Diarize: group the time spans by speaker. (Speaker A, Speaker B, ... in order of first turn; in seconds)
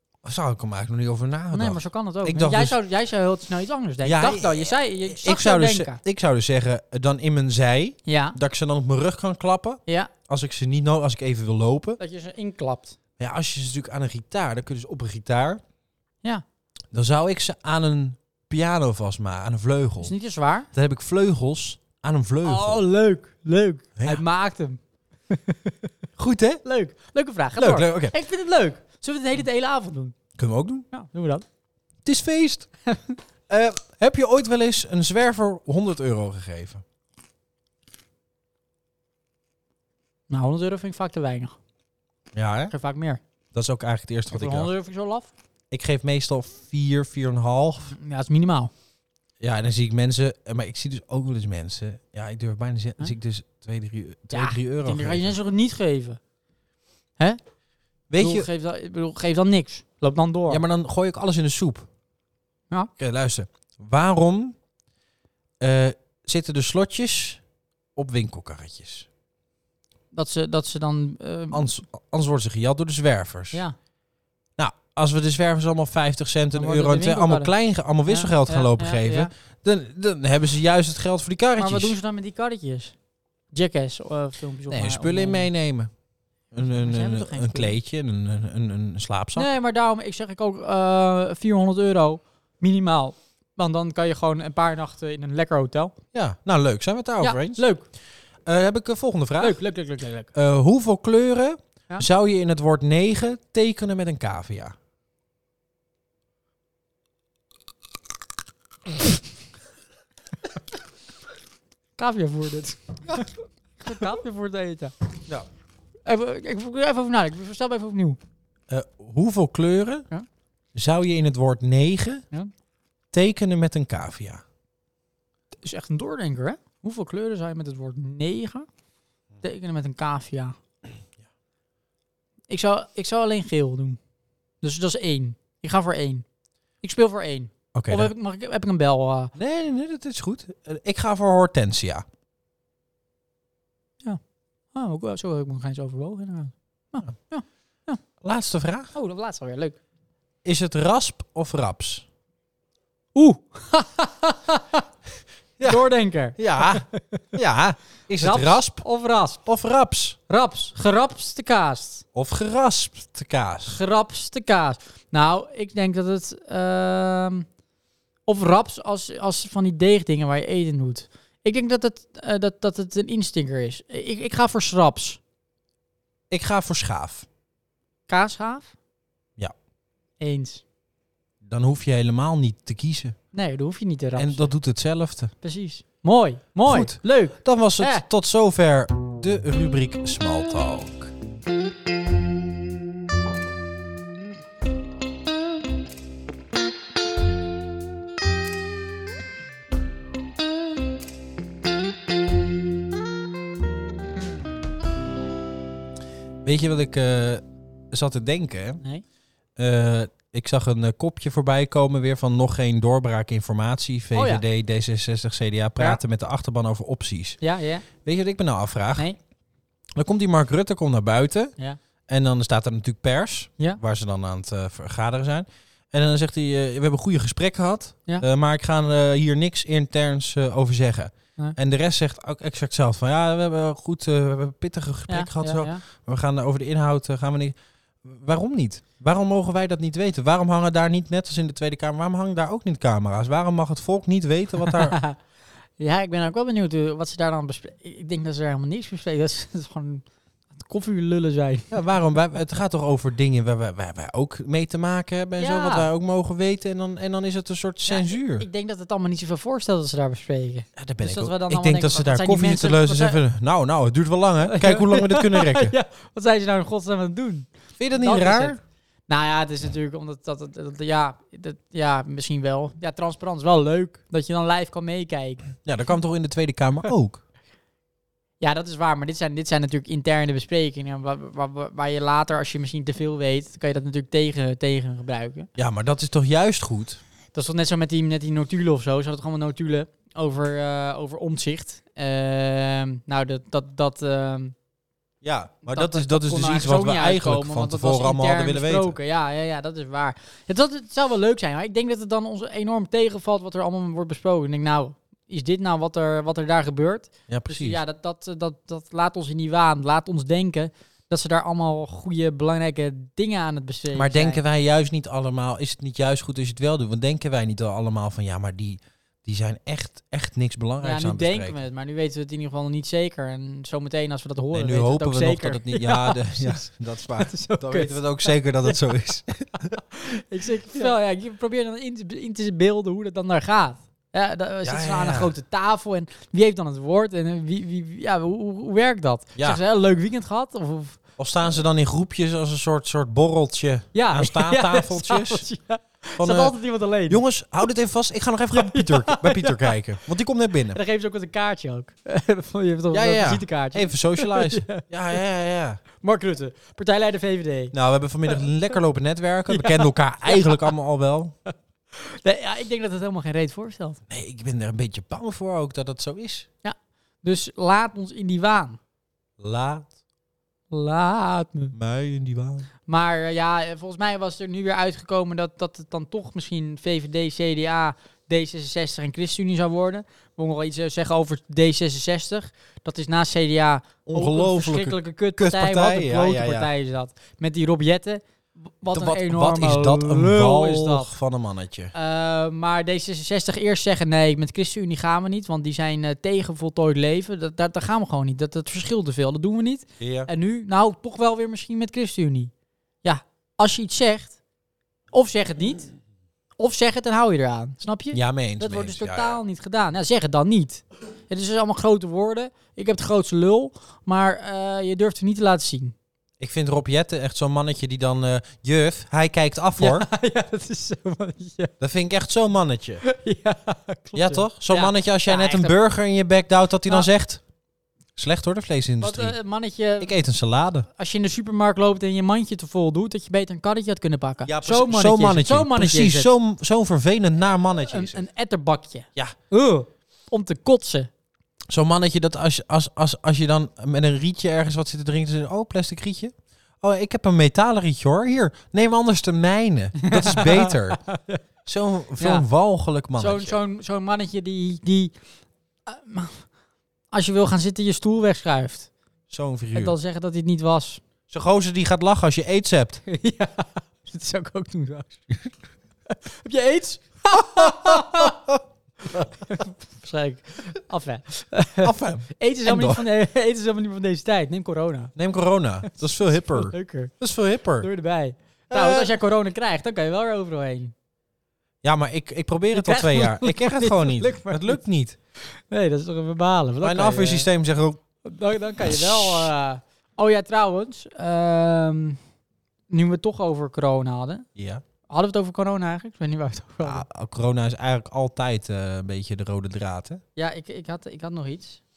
Speaker A: 0.2-2.8, 4.0-12.0, 13.2-15.6, 16.9-20.1, 20.7-22.8, 24.0-24.2, 26.2-26.6, 27.6-28.1, 30.4-30.9, 32.0-32.7, 33.5-36.8, 42.3-42.7, 43.5-44.7, 45.7-48.0, 49.4-55.3, 58.1-58.5, 60.5-61.9, 63.0-64.6, 65.6-67.4, 68.0-69.1, 71.5-73.6, 74.6-82.0, 84.7-85.9, 86.5-89.5, 96.1-97.6, 98.5-99.6, 100.3-104.7, 118.7-120.1, 120.7-122.2, 123.1-124.4, 137.7-138.1, 139.3-142.0, 148.2-148.9, 150.4-152.1, 155.6-155.8, 156.3-158.8, 159.4-160.2, 162.1-163.8, 176.3-177.2, 181.4-183.2, 184.2-185.3, 186.6-191.1, 206.4-208.8, 209.6-217.4, 217.9-219.1, 219.9-221.5, 222.1-245.0, 251.7-258.4, 260.8-265.7, 267.8-268.6, 275.6-277.2, 285.6-287.0, 295.2-298.9, 307.3-307.8, 313.9-321.6, 324.5-329.8, 334.6-335.3, 341.2-345.4, 346.2-350.8, 352.9-355.8, 357.7-361.3, 364.1-366.5, 369.4-369.9, 371.7-372.7, 384.1-386.7, 388.9-391.9, 400.0-400.3, 408.1-409.4, 416.4-420.1, 421.8-423.0, 424.1-427.4, 428.1-429.3, 430.0-430.9, 434.4-438.2, 441.7-451.0, 451.6-453.6, 459.3-459.9, 461.3-463.0, 467.4-468.6, 471.8-473.0, 475.1-477.9, 478.7-479.2, 481.8-485.2, 486.8-488.0, 488.8-489.5, 494.6-494.8, 496.8-500.2
Speaker B: 1.5-6.0, 8.1-8.4, 9.9-10.1, 12.0-12.9, 20.0-20.7, 22.4-25.9, 26.6-30.1, 30.9-31.4, 32.9-33.2, 40.3-41.5, 42.7-43.2, 44.3-45.3, 47.9-48.7, 54.3-56.2, 58.2-60.6, 70.1-71.7, 76.5-77.5, 78.0-79.3, 81.6-83.0, 83.5-85.5, 86.6-87.7, 89.3-95.9, 97.2-97.8, 99.4-100.3, 112.0-114.9, 116.0-118.2, 125.6-128.7, 129.4-130.6, 132.5-134.0, 134.6-136.2, 136.8-139.3, 144.7-148.0, 148.9-149.8, 153.1-154.8, 155.6-157.3, 158.2-159.4, 160.3-162.0, 163.7-167.4, 168.3-175.2, 178.1-178.7, 180.2-180.6, 183.3-184.5, 185.4-188.0, 214.1-214.4, 217.4-217.8, 235.1-235.8, 244.7-245.2, 245.8-250.0, 250.5-251.8, 255.4-255.9, 257.9-263.2, 264.4-275.4, 278.4-285.5, 287.3-294.5, 295.7-314.4, 320.8-328.8, 329.8-341.0, 343.9-347.2, 348.5-349.7, 350.7-354.8, 356.0-357.7, 359.5-360.7, 361.9-364.0, 366.6-368.8, 370.7-371.7, 372.9-391.1, 391.9-402.5, 403.0-404.4, 405.1-405.9, 406.6-415.9, 419.8-421.7, 423.0-425.7, 429.0-430.1, 430.9-436.3, 437.9-441.1, 450.0-451.4, 452.2-452.4, 453.2-455.1, 455.9-456.4, 457.1-458.9, 459.7-461.0, 463.1-465.3, 466.1-468.4, 469.1-475.1, 475.9-477.1, 477.8-480.9, 482.7-484.8, 485.5-487.5, 488.2-492.2, 492.9-494.4, 495.1-497.0, 500.4-501.8